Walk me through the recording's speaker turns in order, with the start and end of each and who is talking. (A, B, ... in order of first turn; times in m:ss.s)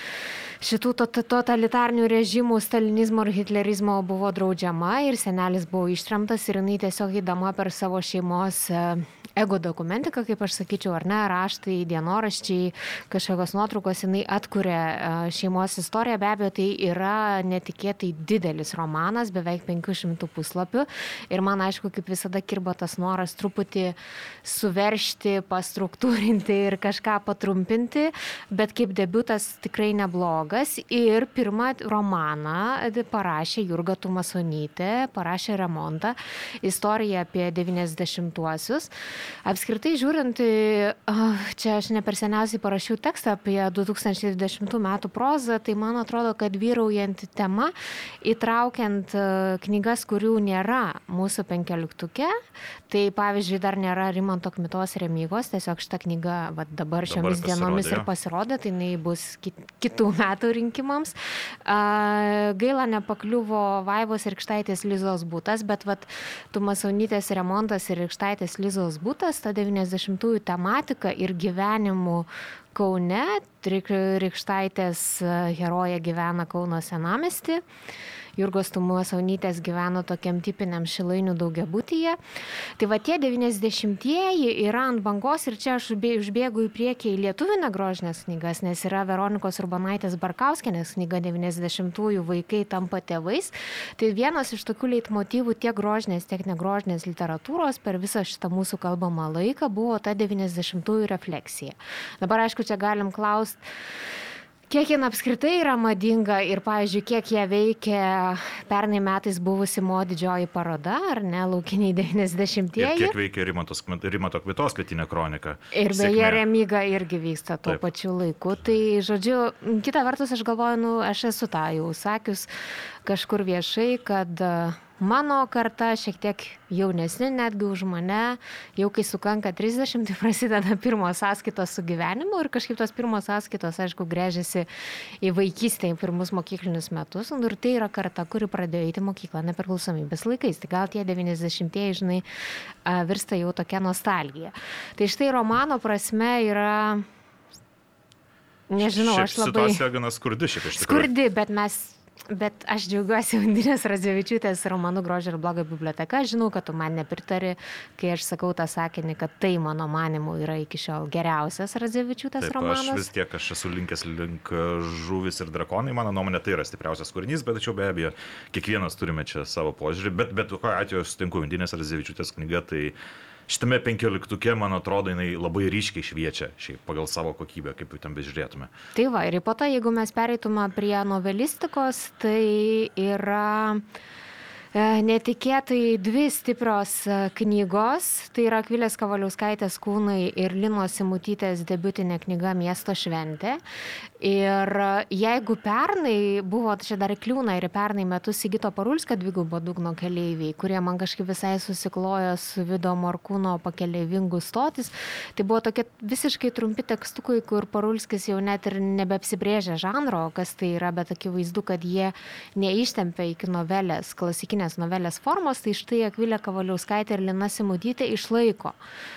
0:00.6-0:38.9 A
0:39.4-0:52.3 A
0:52.9-1:01.1 A
0:57.1-0:58.1 B
1:01.6-1:17.6 A
1:18.4-1:22.2 A
1:22.8-1:43.6 A
1:44.7-1:53.1 A
1:52.8-1:56.4 B
1:55.7-2:02.5 A
2:03.0-2:14.7 A
2:15.2-2:22.2 A
2:22.8-2:27.0 A
2:28.7-2:29.8 A
2:28.8-2:31.1 B
2:30.8-2:43.1 A
2:42.4-2:52.9 B
2:53.5-2:58.7 B
2:58.9-3:03.8 A
3:04.7-3:13.6 A
3:14.2-3:38.8 A